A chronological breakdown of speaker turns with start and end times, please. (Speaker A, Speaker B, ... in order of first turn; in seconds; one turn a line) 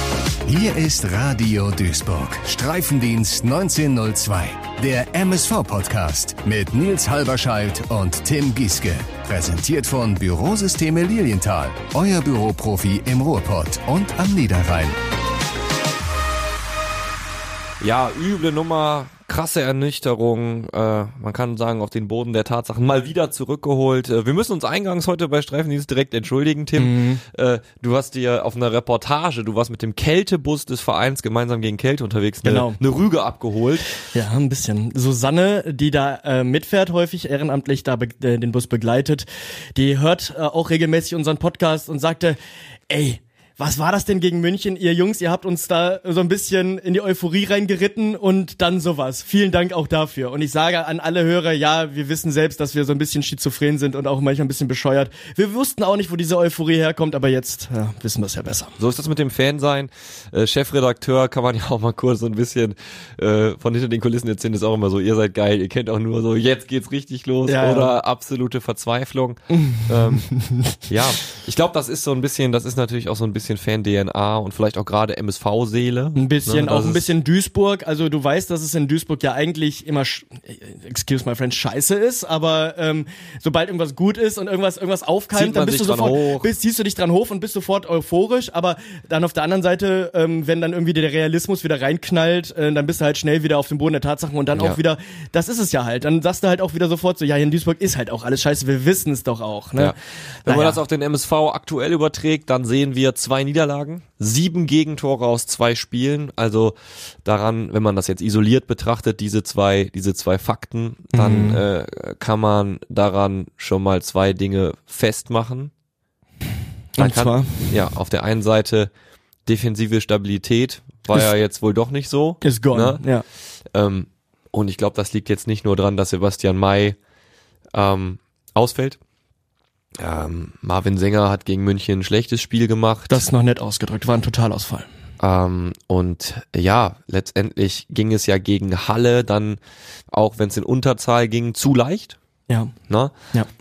Speaker A: 0.5-15.0
Speaker B: 17.8-33.9
Speaker C: 26.8-27.2
Speaker C: 32.4-32.8
Speaker C: 34.1-42.4
Speaker C: 42.9-58.7
Speaker B: 58.8-70.2
Speaker C: 67.5-67.9
Speaker C: 69.5-70.8
Speaker B: 70.9-77.0
Speaker C: 76.2-100.8
Speaker B: 85.3-86.5
Speaker B: 94.5-94.8
Speaker B: 99.8-115.7
Speaker C: 111.1-111.6
Speaker C: 117.0-117.8
Speaker B: 117.0-118.9
Speaker B: 119.5-123.0
Speaker C: 122.4-123.2
Speaker B: 123.7-127.0
Speaker B: 127.7-129.0
Speaker B: 130.0-133.3
Speaker C: 133.1-134.9
Speaker B: 135.2-139.6
Speaker B: 140.1-142.2
Speaker C: 142.5-142.7
Speaker B: 142.9-143.1